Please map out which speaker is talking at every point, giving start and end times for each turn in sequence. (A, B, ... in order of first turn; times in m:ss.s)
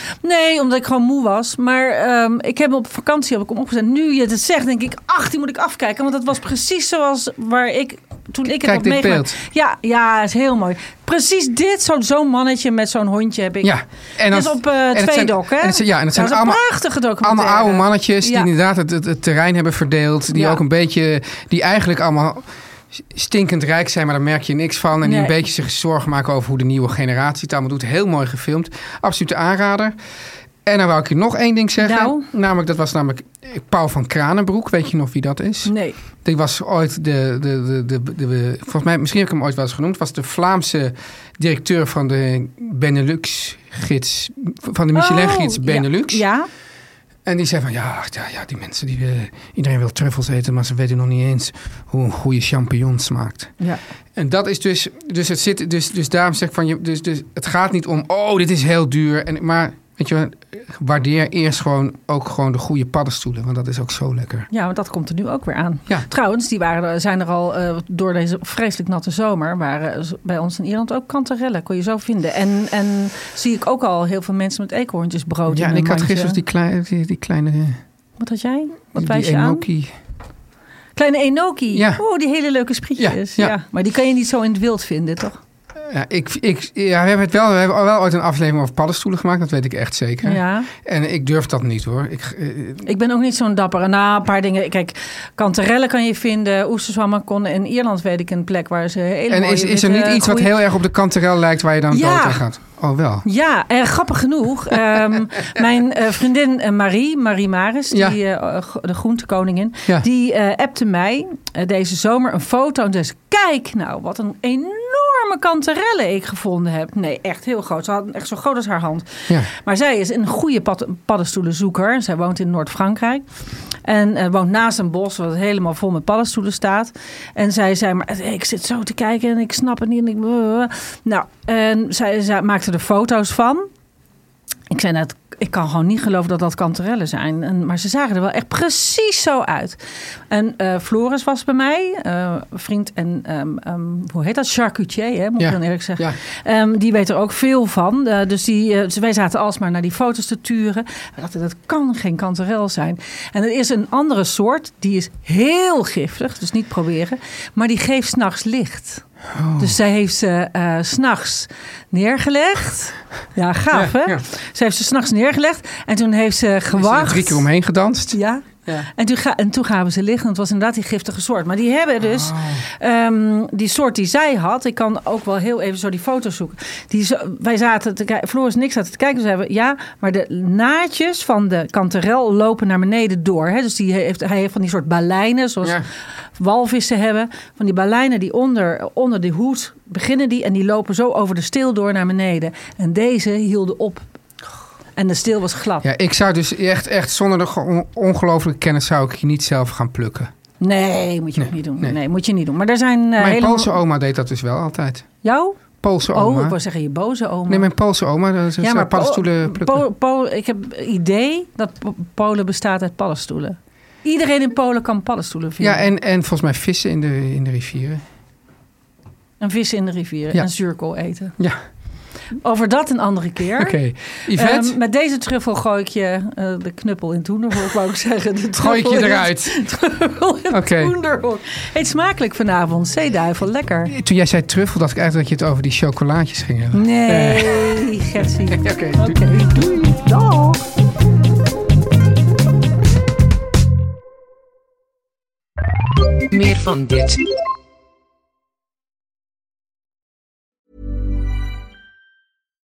0:00.2-0:13.7 A
0:08.5-0:09.4 B
0:13.6-0:16.6 B
0:14.3-0:18.5 A
0:17.2-0:30.0 B
0:20.3-0:20.6 A
0:25.0-0:25.4 A
0:30.7-0:46.2 B
0:31.8-0:32.3 A
0:35.6-0:36.0 A
0:44.9-0:46.5 A
0:47.2-0:53.5 B
0:54.2-1:04.5 B
1:04.5-1:16.4 A
1:15.5-1:17.8 B
1:18.2-1:19.7 A
1:19.0-1:19.9 B
1:21.0-1:25.4 A
1:21.7-1:22.0 B
1:23.0-1:23.6 B
1:25.8-1:32.9 B
1:30.2-1:30.7 A
1:32.8-1:40.5 A
1:39.3-1:43.3 B
1:41.9-1:42.4 A
1:43.2-2:03.3 A
1:47.9-1:48.2 B
2:03.8-2:13.7 A
2:14.7-2:39.0 A
2:25.4-2:26.2 B
2:39.3-2:39.8 B
2:39.6-2:47.4 A
2:43.7-2:44.2 B
2:46.7-2:48.9 B
2:48.1-3:05.8 A
2:52.0-2:52.6 B
3:06.4-3:14.0 A
3:15.0-3:15.8 A
3:15.8-3:20.3 B
3:20.6-3:23.8 A
3:21.4-3:22.0 B
3:23.2-3:25.1 B
3:25.2-3:25.6 A
3:25.8-3:26.6 B
3:26.1-3:27.7 A
3:27.5-3:29.8 B
3:28.6-3:35.9 A
3:35.6-3:38.0 B
3:39.4-3:41.4 A
3:42.4-3:43.8 A
3:43.6-3:44.8 B
3:44.3-3:54.0 A
3:48.5-3:49.6 B
3:50.5-3:50.9 B
3:53.9-3:59.7 B
3:56.7-4:00.6 A